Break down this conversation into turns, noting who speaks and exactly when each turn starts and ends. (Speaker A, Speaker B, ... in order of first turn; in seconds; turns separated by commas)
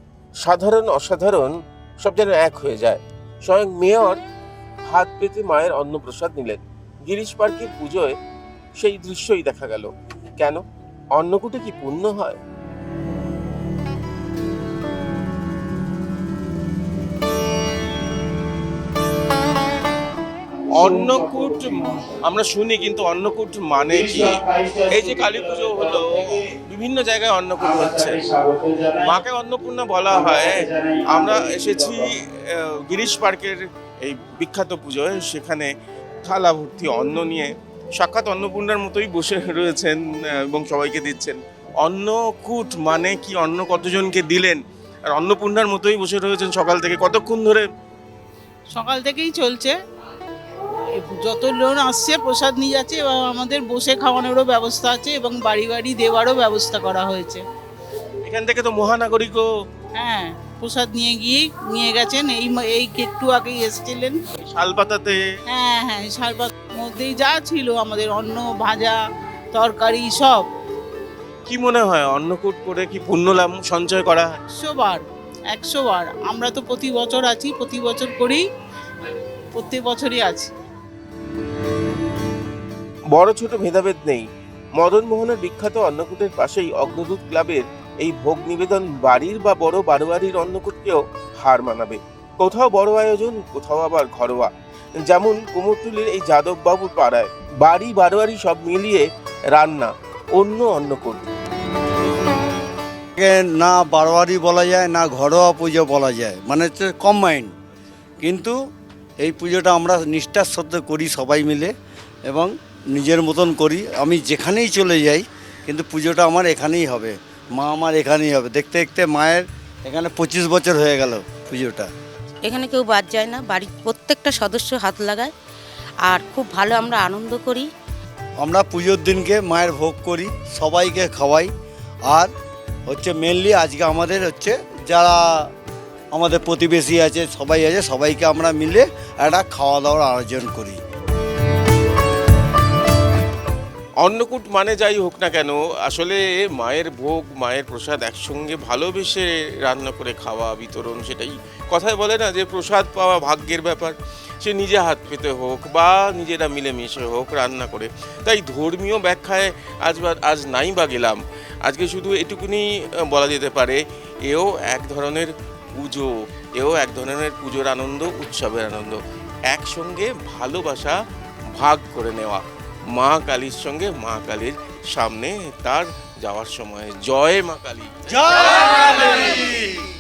Speaker A: 0.4-4.2, Speaker A: 4.9-8.2, Speaker A: 8.8-10.6, Speaker A: 11.2-12.4, Speaker A: 20.7-28.2, Speaker B: 28.4-28.8, Speaker A: 29.0-35.7, Speaker A: 36.2-44.6, Speaker A: 45.1-47.7, Speaker B: 48.7-49.8, Speaker B: 50.9-57.4, Speaker A: 58.2-59.5, Speaker B: 60.0-64.2, Speaker A: 64.4-65.2, Speaker B: 65.5-69.0, Speaker B: 69.5-70.5, Speaker A: 71.5-74.3, Speaker B: 74.6-78.4, Speaker B: 79.5-80.5, Speaker A: 83.2-84.3, Speaker A: 84.8-94.5, Speaker A: 95.0-101.2, Speaker C: 103.2-107.5, Speaker C: 108.2-108.5, Speaker C: 109.2-111.7, Speaker C: 112.3-121.9, Speaker D: 122.4-125.3, Speaker D: 126.0-127.7, Speaker C: 128.4-131.5, Speaker C: 132.9-135.4, Speaker C: 136.1-140.8, Speaker A: 144.0-171.0, Speaker A: 171.6-172.4, Speaker A: 172.9-179.4, Speaker C: 178.1-179.8